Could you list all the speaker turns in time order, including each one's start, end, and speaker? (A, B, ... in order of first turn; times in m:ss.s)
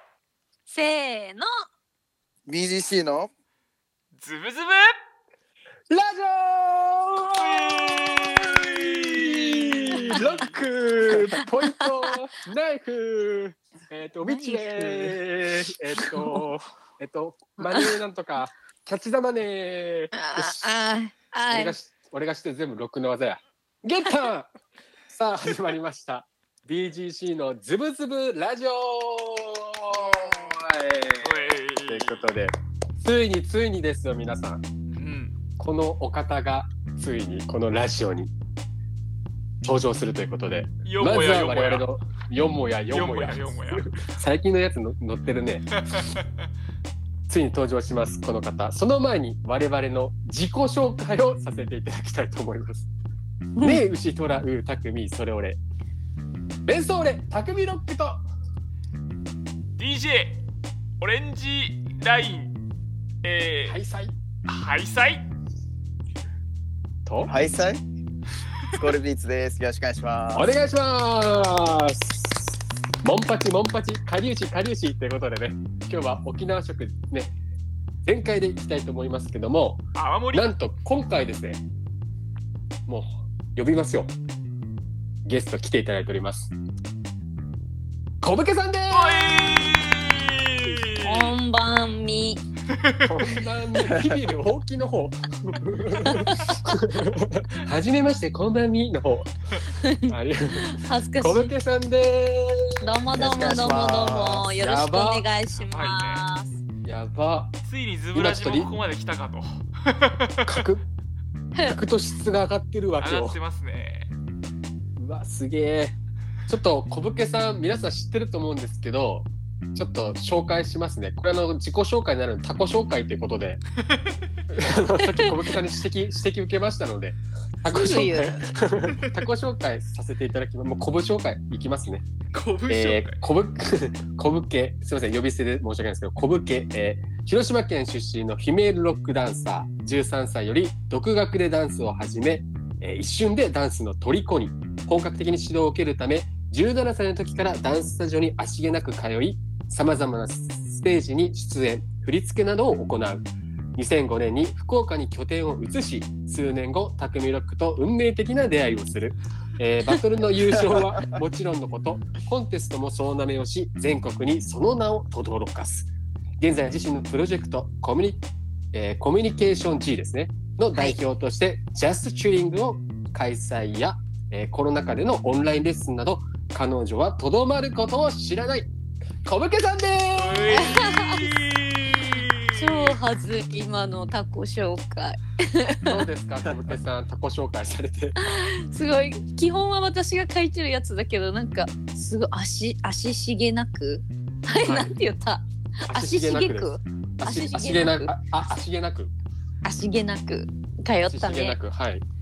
0:00.7-0:01.5 A
0:02.5-0:03.3 B
0:04.1-0:05.0 C
0:05.9-0:20.6 D
0:07.3-0:10.5 C
0:11.6-0:11.9 A
0:14.2-0:15.1 A
0:17.6-0:18.0 A
0:20.1-0:21.8 A
0:21.5-0:24.5 D
0:25.1-0:34.6 D
0:30.0-0:30.5 A
0:31.2-0:32.3 C
0:35.0-0:35.4 C
0:35.6-0:38.3 D
0:39.6-0:45.7 D
0:40.8-0:41.9 C
0:42.9-0:43.9 C
0:45.8-0:46.2 C
0:47.3-0:52.9 D
0:53.6-0:53.8 A
0:53.6-0:55.6 D
0:56.7-0:58.2 D
0:59.8-1:00.4 C
1:01.0-1:02.6 C
1:03.2-1:03.8 C
1:03.7-1:04.2 D
1:04.4-1:05.2 C
1:07.0-1:07.3 D
1:07.2-1:07.8 B
1:08.8-1:10.5 B
1:10.3-1:17.3 D
1:18.0-1:21.6 D
1:20.0-1:20.5 C
1:22.9-1:24.1 D
1:25.2-1:26.5 D
1:28.2-1:29.5 D
1:28.9-1:31.4 C
1:31.0-1:32.4 A
1:32.7-1:33.1 C
1:33.0-1:39.3 D
1:36.0-1:36.5 A
1:39.8-1:41.5 A
1:40.1-1:42.9 D
1:42.8-1:46.6 A
1:43.1-1:44.5 B
1:44.4-1:45.3 D
1:45.6-1:46.2 C
1:46.8-1:47.6 D
1:47.6-1:50.6 C
1:48.1-1:48.7 D
1:50.4-1:50.8 D
1:51.6-1:53.4 D
1:53.0-1:54.1 C
1:55.0-1:56.0 D
1:56.5-2:03.6 D
2:04.5-2:12.0 D
2:05.0-2:05.3 A
2:07.6-2:08.4 A
2:12.3-2:13.2 C
2:12.7-2:58.7 D
2:40.6-2:41.1 B
2:59.2-3:00.9 D
3:00.2-3:03.0 C
3:00.5-3:01.3 A
3:02.5-3:06.0 A
3:05.8-3:08.2 D
3:08.2-3:18.2 A
3:15.8-3:19.1 D
3:19.6-3:21.6 A
3:21.1-3:22.0 D